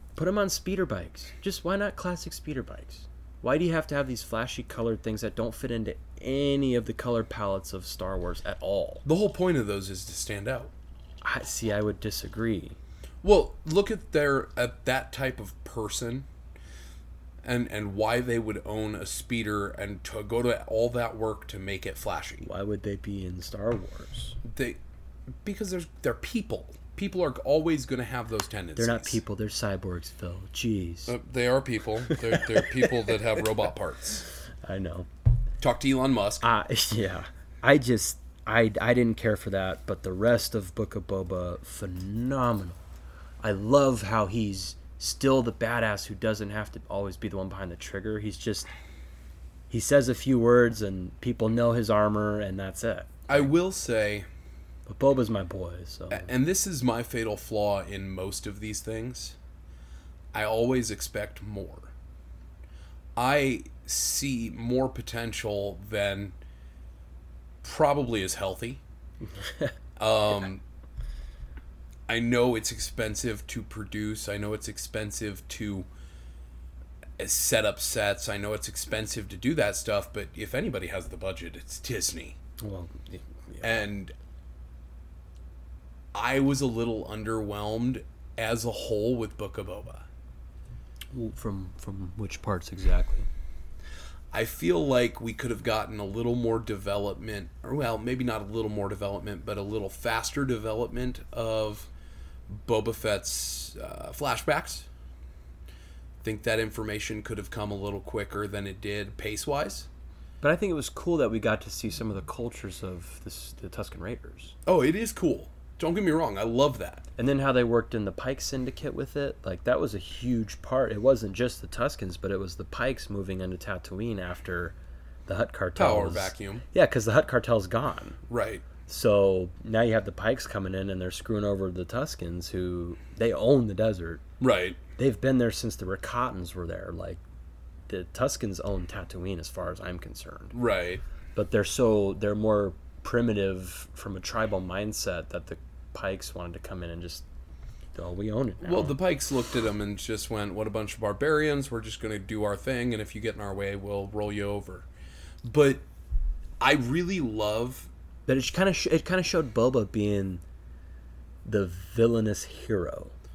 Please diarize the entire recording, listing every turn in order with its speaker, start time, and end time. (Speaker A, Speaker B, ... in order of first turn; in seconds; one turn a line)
Speaker A: 0.1-9.0
Speaker B: 9.0-10.7
Speaker A: 11.2-12.8
Speaker B: 13.2-16.3
Speaker B: 17.4-22.5
Speaker A: 22.4-24.4
Speaker B: 24.4-24.8
Speaker B: 25.4-29.2
Speaker A: 28.8-31.1
Speaker B: 31.1-34.2
Speaker A: 34.6-35.1
Speaker B: 35.6-36.5
Speaker A: 36.4-42.8
Speaker A: 43.4-48.7
Speaker A: 49.7-53.5
Speaker B: 53.3-54.2
Speaker A: 54.9-56.3
Speaker B: 56.1-59.4
Speaker B: 60.3-61.9
Speaker B: 63.1-66.3
Speaker B: 67.6-68.8
Speaker A: 69.4-69.7
Speaker B: 70.0-70.6
Speaker B: 72.1-75.8
Speaker B: 77.2-82.3
Speaker A: 82.6-83.9
Speaker B: 83.6-84.1
Speaker B: 86.1-90.0
Speaker A: 91.1-93.3
Speaker B: 94.3-101.9
Speaker B: 102.5-104.9
Speaker B: 106.2-109.9
Speaker A: 110.4-114.5
Speaker B: 114.7-117.1
Speaker A: 117.2-124.7
Speaker A: 125.3-128.2
Speaker B: 125.8-126.6
Speaker B: 128.3-128.7
Speaker A: 128.9-134.2
Speaker B: 134.4-134.8
Speaker A: 135.0-137.2
Speaker A: 137.9-140.6
Speaker B: 140.5-141.0
Speaker A: 141.3-147.2
Speaker A: 147.9-148.9
Speaker B: 148.6-154.9
Speaker B: 155.4-155.8
Speaker B: 156.6-157.9
Speaker A: 158.3-160.4
Speaker A: 161.4-163.1